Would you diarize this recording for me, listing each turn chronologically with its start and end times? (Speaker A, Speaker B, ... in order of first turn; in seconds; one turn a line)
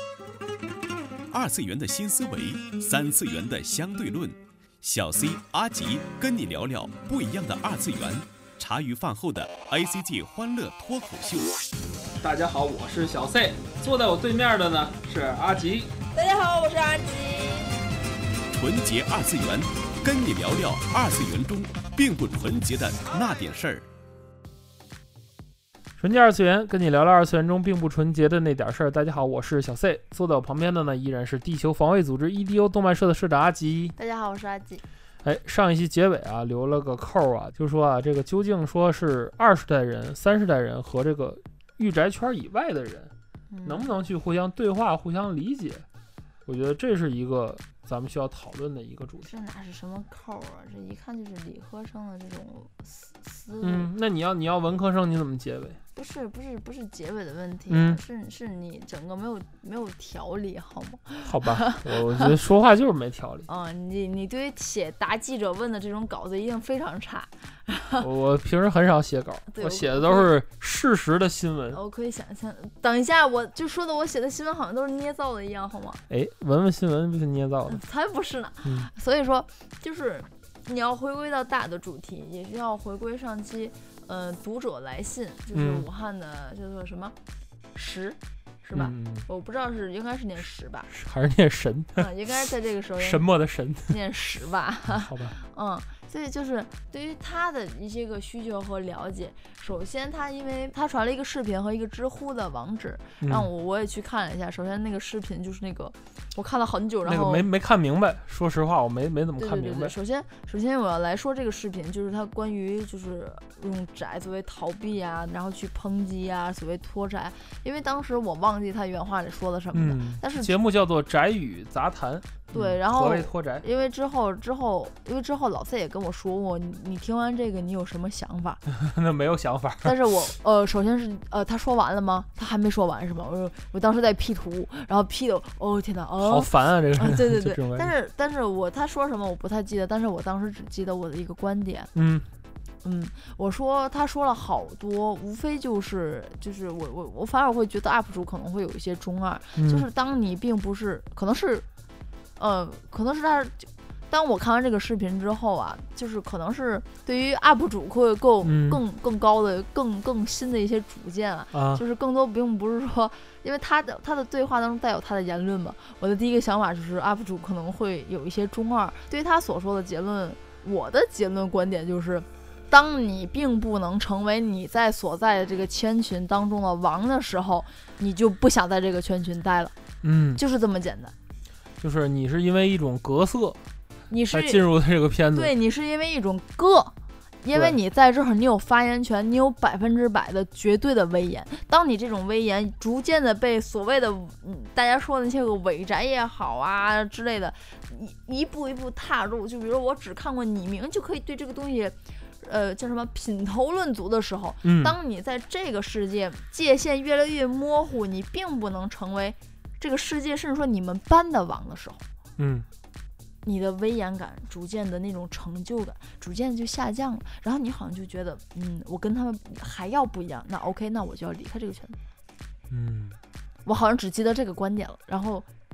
Speaker A: 1.3-11.6
Speaker B: 12.2-15.9
Speaker C: 16.1-17.8
Speaker A: 18.5-23.9
Speaker B: 26.0-33.9
Speaker C: 33.9-34.8
Speaker B: 35.2-43.1
Speaker C: 43.5-43.9
Speaker B: 43.6-45.9
Speaker B: 46.5-49.3
Speaker C: 49.2-53.9
Speaker B: 53.6-55.8
Speaker C: 55.9-62.2
Speaker B: 57.7-58.0
Speaker B: 61.2-63.5
Speaker C: 63.5-68.1
Speaker B: 68.0-71.8
Speaker C: 69.5-70.3
Speaker C: 71.7-76.0
Speaker B: 76.1-77.8
Speaker C: 77.7-87.2
Speaker B: 78.6-78.9
Speaker B: 85.5-85.9
Speaker C: 87.7-90.9
Speaker B: 88.7-89.3
Speaker B: 90.9-92.1
Speaker C: 92.0-93.3
Speaker B: 93.0-94.0
Speaker C: 93.9-107.5
Speaker B: 94.9-95.4
Speaker B: 103.2-103.5
Speaker B: 107.0-110.0
Speaker C: 109.4-120.5
Speaker B: 119.7-123.6
Speaker C: 122.5-128.6
Speaker B: 128.7-130.0
Speaker C: 129.8-141.9
Speaker B: 136.2-137.9
Speaker B: 141.9-142.3
Speaker C: 142.8-151.7
Speaker B: 149.5-149.9
Speaker C: 152.4-179.7
Speaker B: 158.4-158.8
Speaker B: 161.5-161.8
Speaker B: 180.0-180.4
Speaker C: 180.3-181.1
Speaker B: 181.8-183.6
Speaker C: 184.1-184.7
Speaker B: 184.3-185.5
Speaker C: 185.3-212.0
Speaker B: 187.5-187.8
Speaker B: 204.6-204.9
Speaker B: 212.4-212.7
Speaker C: 213.4-222.0
Speaker B: 222.7-223.2
Speaker C: 223.6-225.5